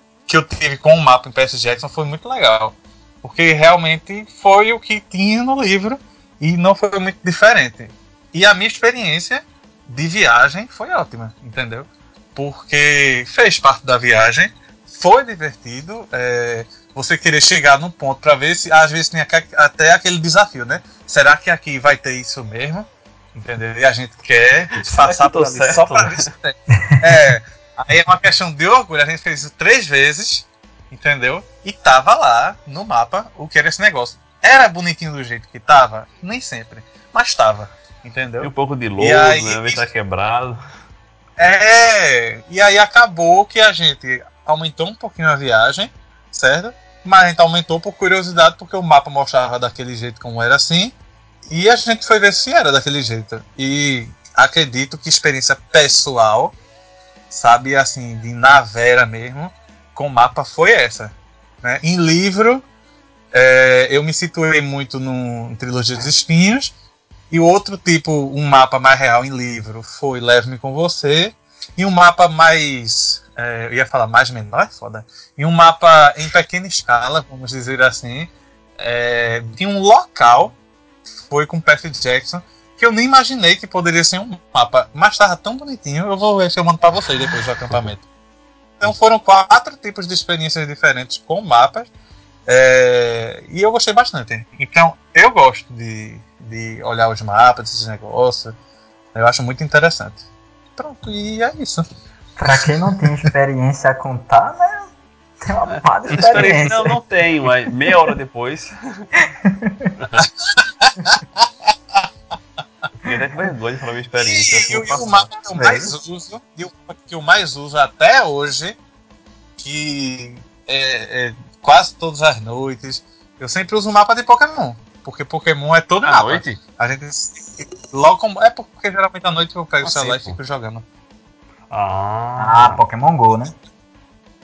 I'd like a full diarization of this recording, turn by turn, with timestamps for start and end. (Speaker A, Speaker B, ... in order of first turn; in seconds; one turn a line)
Speaker A: 0.3-39.9
Speaker B: 24.8-26.3
Speaker B: 38.4-40.6
Speaker A: 41.4-51.0
Speaker A: 51.5-56.5
Speaker A: 57.3-62.6
Speaker A: 63.3-66.7
Speaker A: 67.3-80.5
Speaker A: 81.3-88.0
Speaker A: 88.8-91.9
Speaker A: 92.5-98.5
Speaker A: 99.1-100.2
Speaker A: 100.8-101.8
Speaker C: 102.4-104.9
Speaker C: 105.4-107.0
Speaker B: 105.7-109.1
Speaker C: 109.4-109.9
Speaker B: 110.0-110.2
Speaker A: 110.2-111.5
Speaker B: 113.0-115.3
Speaker A: 114.2-118.8
Speaker C: 115.5-115.9
Speaker A: 119.6-130.8
Speaker B: 126.0-126.6
Speaker B: 129.8-130.4
Speaker B: 131.7-132.8
Speaker C: 132.4-133.5